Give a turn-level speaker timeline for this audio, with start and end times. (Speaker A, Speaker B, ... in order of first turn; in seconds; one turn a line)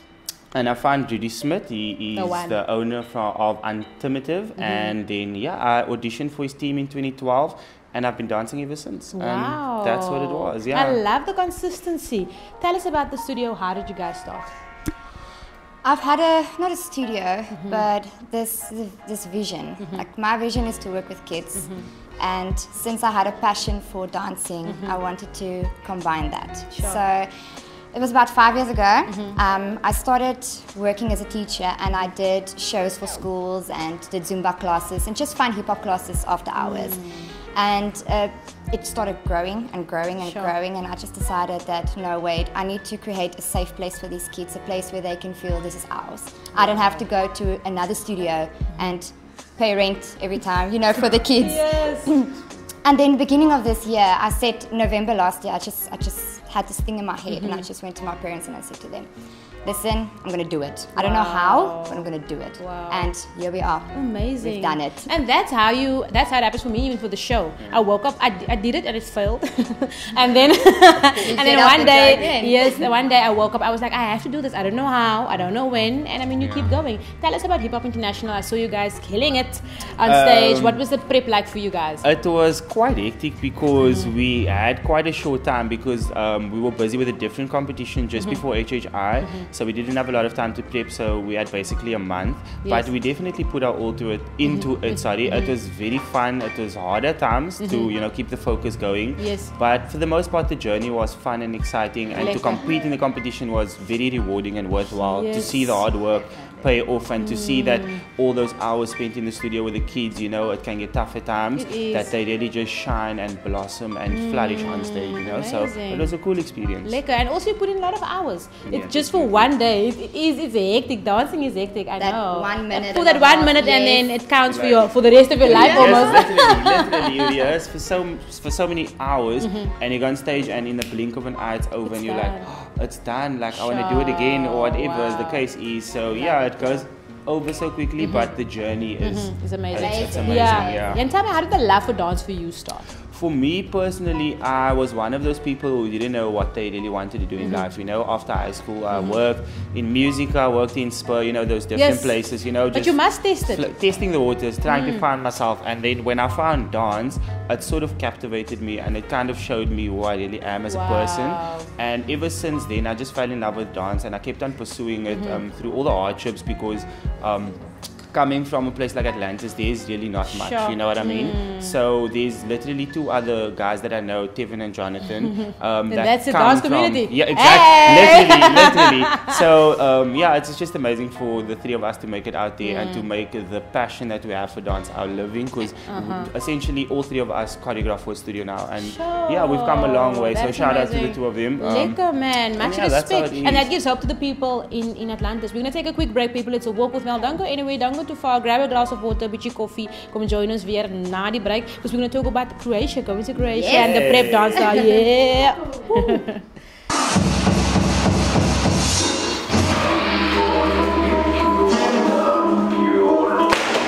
Speaker A: 0.6-11.0
Speaker B: 2.1-2.6
Speaker B: 4.6-4.9
Speaker B: 9.1-14.5
Speaker C: 15.8-27.3
Speaker B: 17.5-17.9
Speaker B: 21.6-21.9
Speaker B: 24.6-25.0
Speaker B: 26.7-27.0
Speaker C: 27.9-37.0
Speaker B: 29.1-29.4
Speaker B: 36.6-37.3
Speaker C: 37.5-59.1
Speaker B: 40.2-40.5
Speaker B: 46.5-47.0
Speaker B: 51.4-52.2
Speaker B: 57.3-57.7
Speaker C: 59.6-65.1
Speaker B: 61.0-63.1
Speaker B: 63.9-82.0
Speaker A: 71.1-72.3
Speaker C: 71.2-72.7
Speaker A: 76.4-76.7
Speaker A: 80.0-80.8
Speaker A: 82.0-117.0
Speaker B: 83.8-84.1
Speaker B: 92.6-92.9
Speaker B: 94.4-95.5
Speaker B: 97.6-97.9
Speaker B: 99.2-99.5
Speaker B: 102.2-102.7
Speaker B: 105.0-105.9
Speaker B: 107.2-108.0
Speaker B: 111.6-112.1
Speaker B: 114.1-116.2
Speaker B: 116.8-127.4
Speaker A: 118.7-119.5
Speaker C: 122.0-124.1
Speaker A: 124.4-141.0
Speaker C: 125.4-126.2
Speaker B: 129.4-129.7
Speaker B: 131.9-132.5
Speaker B: 133.5-135.5
Speaker B: 136.1-136.8
Speaker B: 138.0-138.3
Speaker B: 139.0-142.9
Speaker C: 139.7-141.0
Speaker A: 143.1-167.6
Speaker B: 147.4-147.7
Speaker B: 148.9-149.2
Speaker B: 151.8-152.2
Speaker B: 152.7-153.7
Speaker B: 154.7-155.0
Speaker B: 160.7-161.7
Speaker B: 165.1-165.4
Speaker A: 168.1-192.0
Speaker B: 170.3-171.8
Speaker B: 175.2-179.4
Speaker B: 182.6-183.1
Speaker B: 185.9-186.3
Speaker B: 188.8-206.4
Speaker A: 192.6-193.7
Speaker C: 203.5-204.0
Speaker A: 203.7-204.7